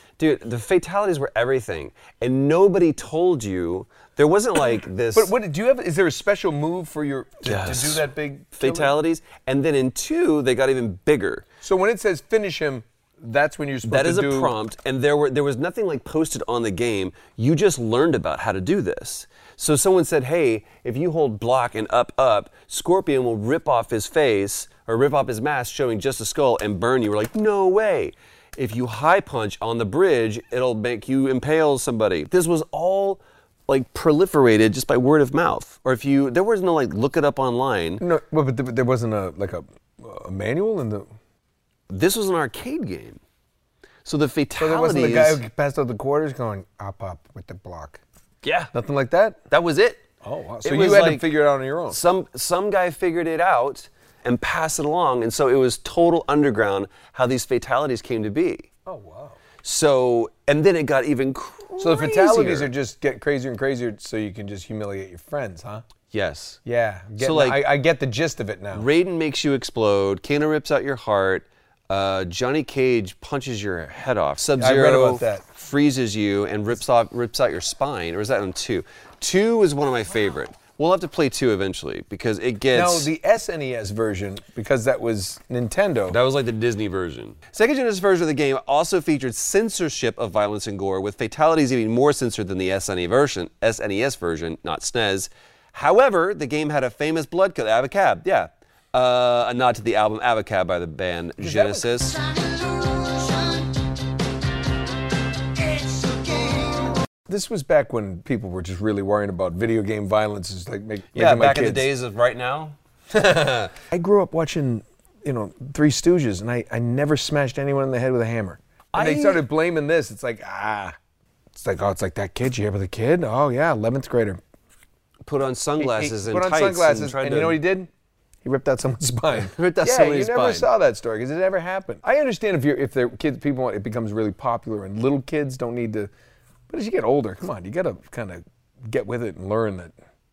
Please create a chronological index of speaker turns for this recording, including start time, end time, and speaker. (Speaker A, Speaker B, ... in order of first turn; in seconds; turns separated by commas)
Speaker A: 0.2-5.3, Speaker B: 5.1-8.9, Speaker A: 7.4-11.4, Speaker B: 11.6-14.5, Speaker A: 13.8-38.0, Speaker B: 38.0-41.1, Speaker A: 41.9-43.2, Speaker A: 44.0-45.4, Speaker B: 44.6-48.0, Speaker A: 48.4-48.7, Speaker B: 48.7-49.4, Speaker A: 49.5-50.0, Speaker B: 50.2-52.0, Speaker A: 50.6-58.7, Speaker B: 58.9-59.4, Speaker A: 59.6-62.7, Speaker B: 61.8-65.8, Speaker A: 66.1-66.6, Speaker B: 66.7-68.9, Speaker A: 67.2-67.7, Speaker A: 68.7-83.1, Speaker B: 74.5-75.4, Speaker B: 82.7-86.2, Speaker A: 86.1-102.4, Speaker B: 101.4-101.9, Speaker A: 105.8-106.6, Speaker B: 107.3-111.9, Speaker A: 111.1-113.7, Speaker B: 113.9-121.0, Speaker A: 118.9-119.5, Speaker B: 121.5-124.4, Speaker A: 125.2-127.6, Speaker B: 125.8-127.9, Speaker B: 128.4-136.1, Speaker A: 129.3-130.7, Speaker B: 136.7-139.9